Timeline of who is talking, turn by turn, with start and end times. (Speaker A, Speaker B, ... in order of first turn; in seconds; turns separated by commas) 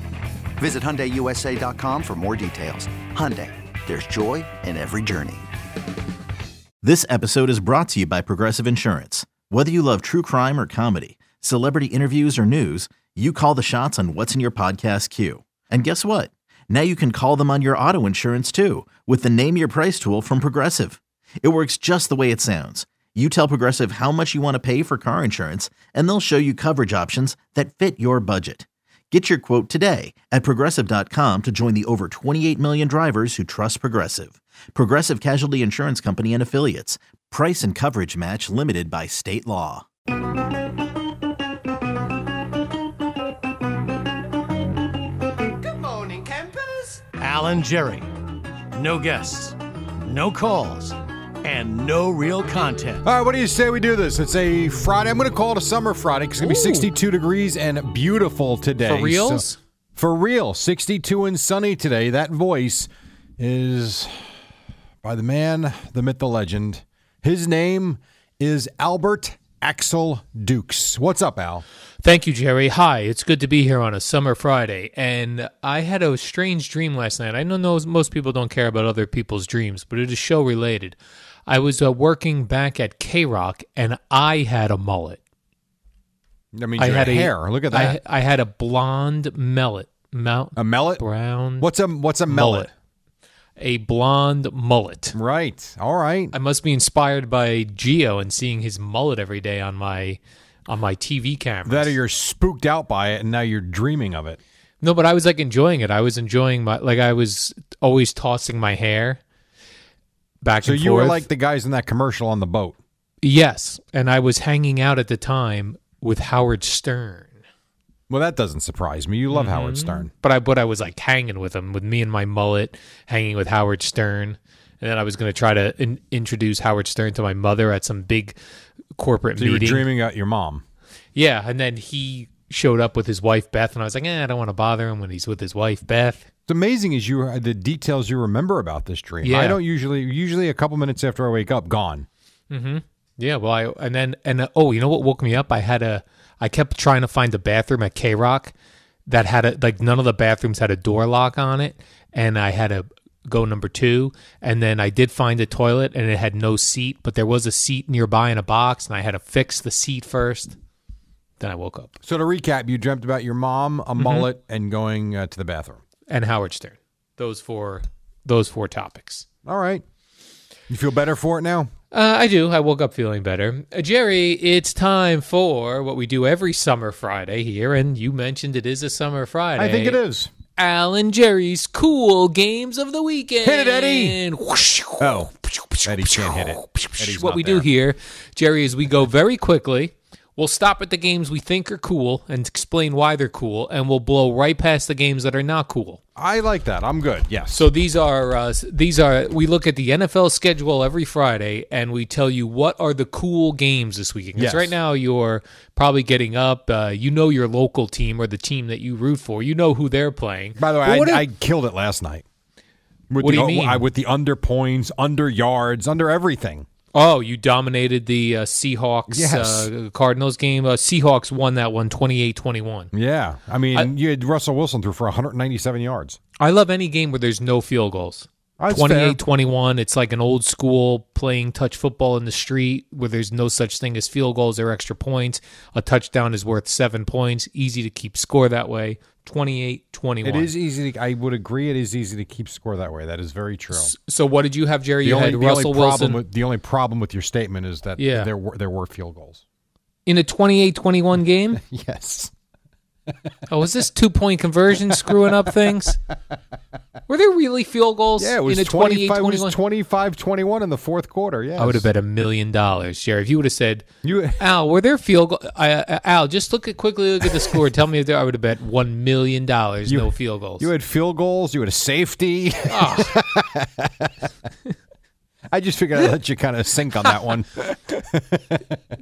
Speaker A: 0.6-5.5, Speaker B: 6.8-39.9, Speaker C: 45.6-48.1, Speaker C: 48.8-53.0, Speaker D: 53.0-59.4, Speaker E: 56.4-56.9, Speaker E: 58.8-59.6, Speaker D: 60.0-64.4, Speaker D: 65.0-71.7, Speaker E: 72.0-85.2, Speaker D: 86.5-88.0, Speaker E: 86.8-91.7, Speaker D: 90.6-91.0, Speaker D: 91.6-92.7, Speaker E: 92.3-92.7, Speaker E: 93.6-95.2, Speaker D: 95.1-96.3, Speaker E: 96.3-101.9, Speaker D: 101.7-104.4, Speaker E: 104.8-109.2, Speaker E: 110.4-111.3, Speaker D: 110.6-112.8, Speaker E: 113.2-117.4, Speaker D: 118.1-120.1, Speaker E: 119.3-128.4, Speaker E: 129.0-129.9, Speaker D: 129.4-130.6, Speaker E: 131.2-136.3, Speaker D: 136.5-142.1, Speaker E: 139.2-139.6, Speaker E: 142.5-148.5, Speaker E: 149.1-160.6, Speaker E: 161.4-161.9, Speaker D: 162.0-165.8, Speaker E: 164.0-164.3, Speaker E: 166.1-169.3, Speaker D: 169.4-169.8, Speaker D: 170.7-171.7, Speaker E: 171.9-180.0, Speaker D: 179.6-180.3, Speaker E: 180.6-196.0, Speaker D: 183.4-184.2, Speaker D: 185.0-185.3, Speaker D: 185.8-187.7, Speaker D: 196.2-197.7, Speaker E: 197.5-211.3, Speaker D: 204.4-204.8, Speaker D: 210.6-212.2, Speaker D: 213.1-216.7, Speaker E: 213.2-213.9, Speaker E: 216.9-222.9, Speaker D: 219.1-219.7, Speaker D: 222.9-226.2, Speaker E: 226.4-240.5, Speaker D: 228.6-229.2, Speaker D: 240.2-243.9, Speaker E: 243.7-246.2, Speaker D: 245.0-249.4, Speaker E: 248.0-248.3, Speaker E: 250.1-251.6, Speaker D: 251.5-252.3, Speaker E: 253.5-256.0, Speaker D: 254.9-255.8, Speaker E: 257.1-259.6, Speaker D: 258.2-261.9, Speaker E: 261.6-263.9, Speaker D: 264.0-264.4, Speaker E: 264.4-270.7, Speaker D: 269.9-274.3, Speaker E: 272.7-273.3, Speaker D: 275.5-278.8